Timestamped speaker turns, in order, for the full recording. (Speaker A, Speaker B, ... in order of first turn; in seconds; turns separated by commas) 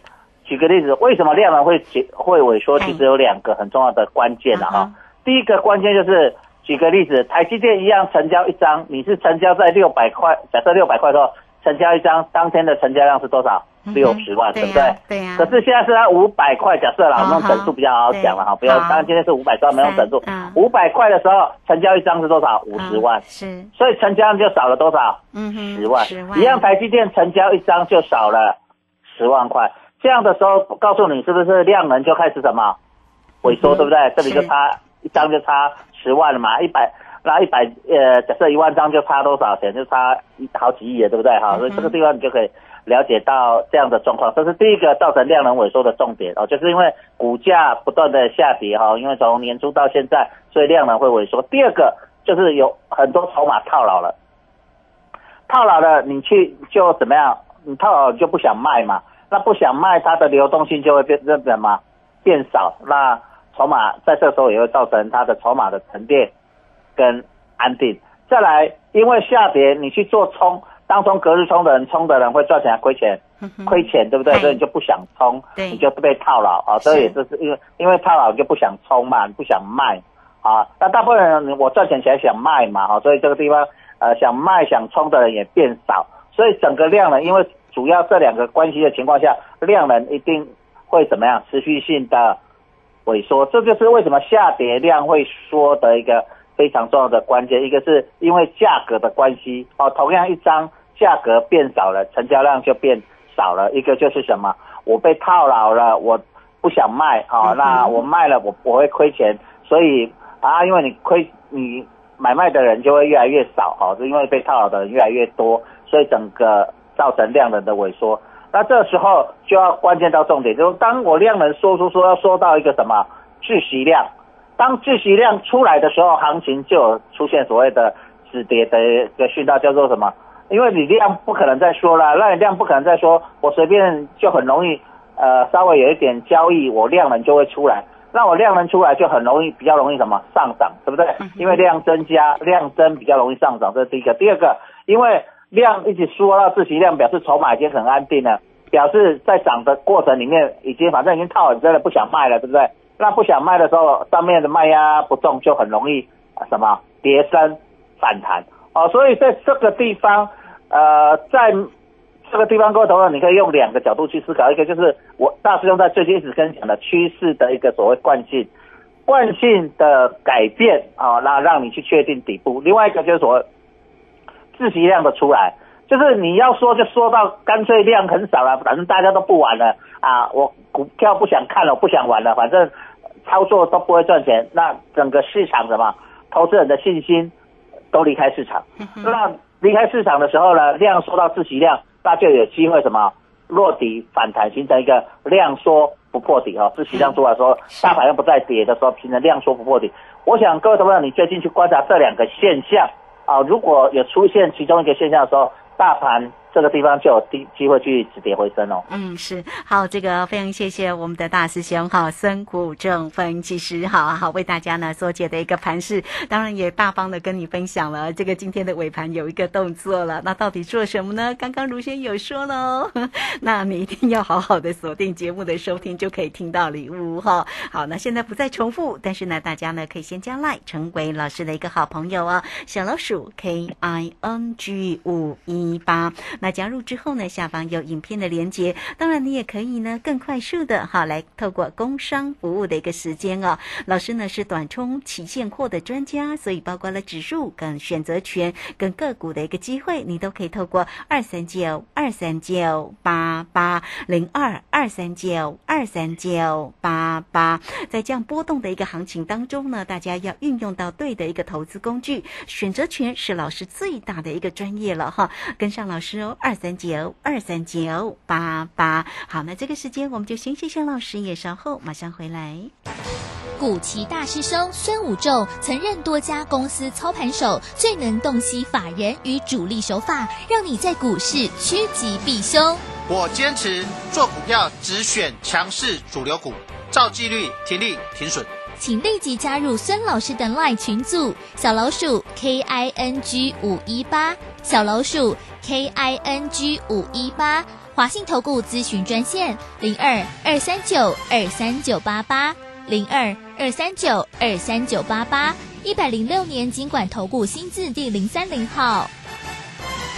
Speaker A: 0.5-23.2, Speaker B: 2.8-3.0, Speaker B: 4.5-4.9, Speaker B: 13.9-15.6, Speaker B: 17.2-19.1, Speaker B: 19.8-20.6, Speaker B: 22.7-23.7, Speaker A: 23.8-25.2, Speaker B: 25.3-26.7, Speaker A: 25.7-28.6, Speaker A: 29.1-32.8, Speaker A: 33.4-54.1, Speaker B: 33.5-34.5, Speaker B: 41.5-42.0, Speaker A: 55.5-66.3, Speaker A: 67.0-92.4, Speaker B: 73.4-74.6, Speaker B: 75.6-75.8, Speaker B: 76.8-77.2, Speaker A: 93.1-161.7, Speaker B: 107.5-108.0, Speaker B: 141.3-141.5, Speaker A: 162.3-168.5, Speaker A: 169.1-173.4, Speaker A: 174.6-182.7, Speaker A: 183.2-187.3, Speaker A: 187.9-208.8, Speaker B: 188.8-189.1, Speaker B: 208.9-272.7, Speaker C: 273.6-282.8, Speaker D: 283.1-288.5, Speaker C: 288.8-309.1